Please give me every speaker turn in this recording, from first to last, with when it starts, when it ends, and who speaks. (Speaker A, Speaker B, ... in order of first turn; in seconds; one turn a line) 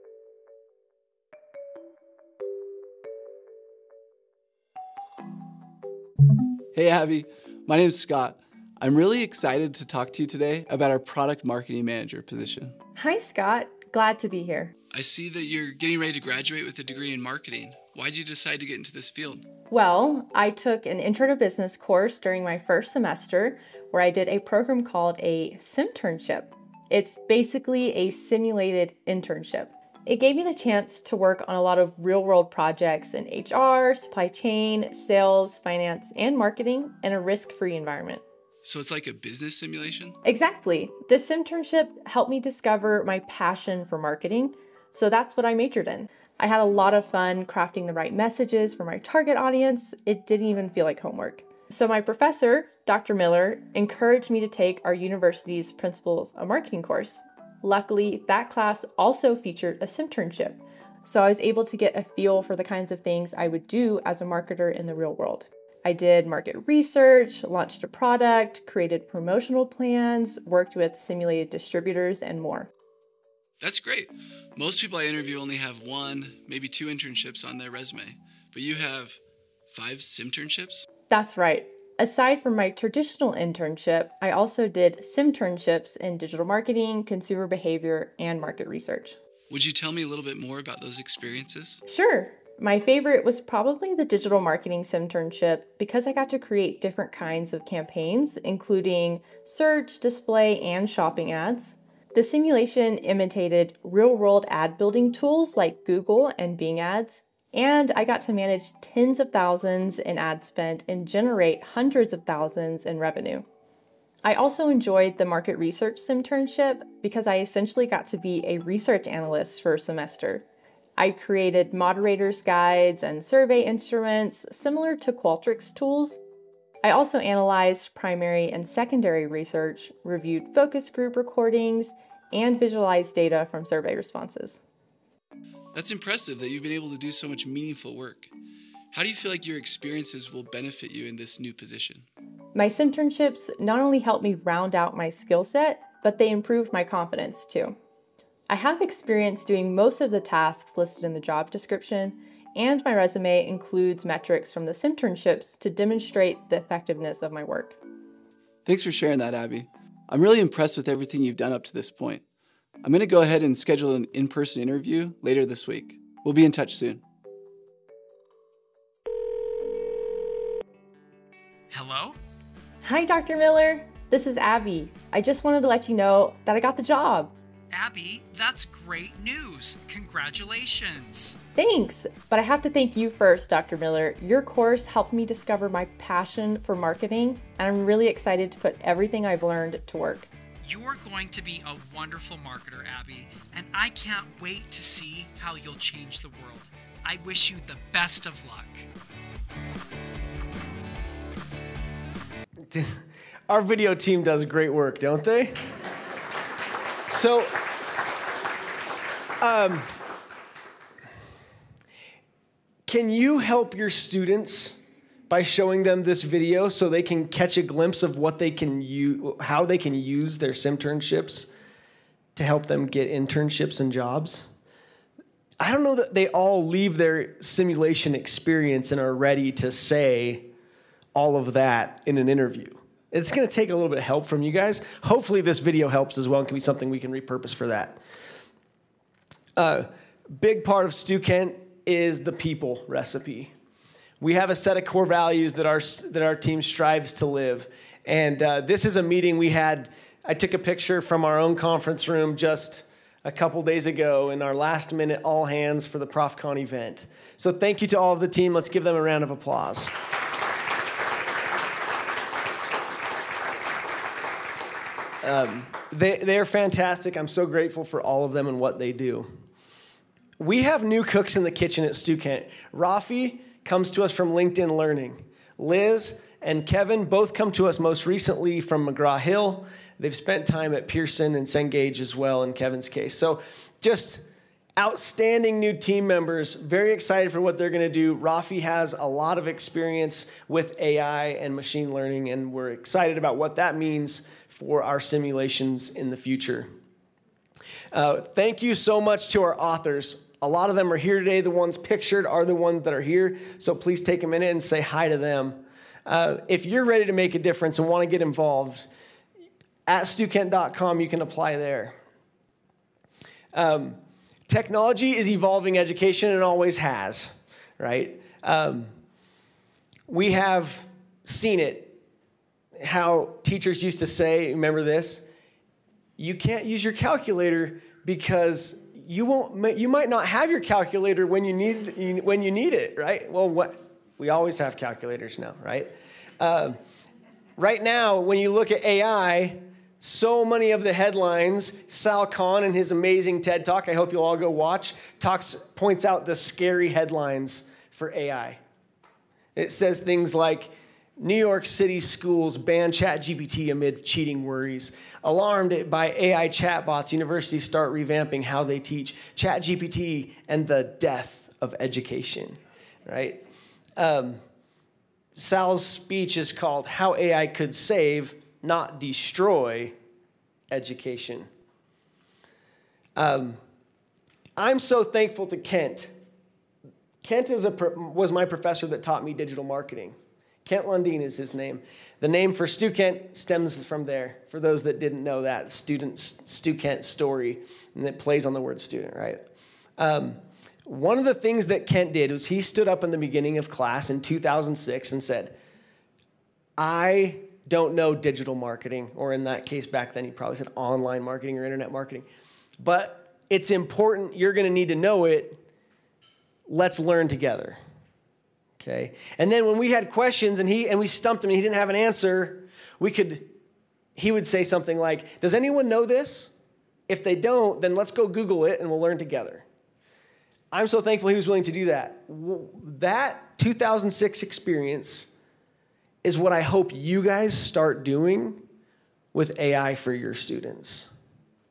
Speaker A: 6.7-12.8
Speaker B: 13.0-14.7
Speaker A: 14.9-19.4
Speaker B: 19.7-38.2
Speaker A: 38.6-40.2
Speaker B: 40.2-72.7
Speaker A: 73.6-80.9
Speaker B: 81.1-89.2
Speaker A: 89.5-91.8
Speaker B: 91.9-113.5
Speaker B: 114.2-120.5
Speaker B: 121.0-126.2
Speaker B: 126.8-134.6
Speaker A: 135.7-138.3
Speaker A: 138.9-142.1
Speaker B: 142.6-147.8
Speaker B: 148.5-157.8
Speaker A: 158.7-162.2
Speaker A: 162.8-167.0
Speaker C: 171.7-172.2
Speaker B: 172.8-177.3
Speaker C: 177.7-181.4
Speaker B: 181.6-190.3
Speaker C: 190.6-198.9
Speaker D: 202.7-205.6
Speaker D: 207.1-207.6
Speaker D: 209.4-210.0
Speaker D: 212.9-221.5
Speaker D: 222.3-224.5
Speaker D: 225.6-230.5
Speaker D: 231.1-238.0
Speaker D: 239.6-243.5
Speaker D: 244.2-259.9
Speaker D: 265.2-269.3
Speaker D: 270.4-284.2
Speaker D: 284.8-296.7
Speaker D: 297.9-308.9
Speaker D: 309.9-312.0
Speaker D: 313.5-318.9
Speaker D: 320.1-322.0
Speaker D: 322.8-325.3
Speaker D: 326.2-336.8
Speaker D: 337.6-348.6
Speaker D: 349.6-363.4
Speaker D: 364.0-364.4
Speaker D: 365.4-370.0
Speaker D: 370.7-371.5
Speaker D: 373.2-373.6
Speaker D: 374.6-376.1
Speaker D: 377.2-389.4
Speaker D: 390.0-395.6
Speaker D: 396.8-402.3
Speaker D: 402.8-405.6
Speaker D: 406.7-407.8
Speaker D: 408.8-413.5
Speaker D: 414.2-416.5
Speaker D: 417.1-419.6
Speaker D: 420.7-425.3
Speaker D: 426.2-428.6
Speaker D: 429.3-431.1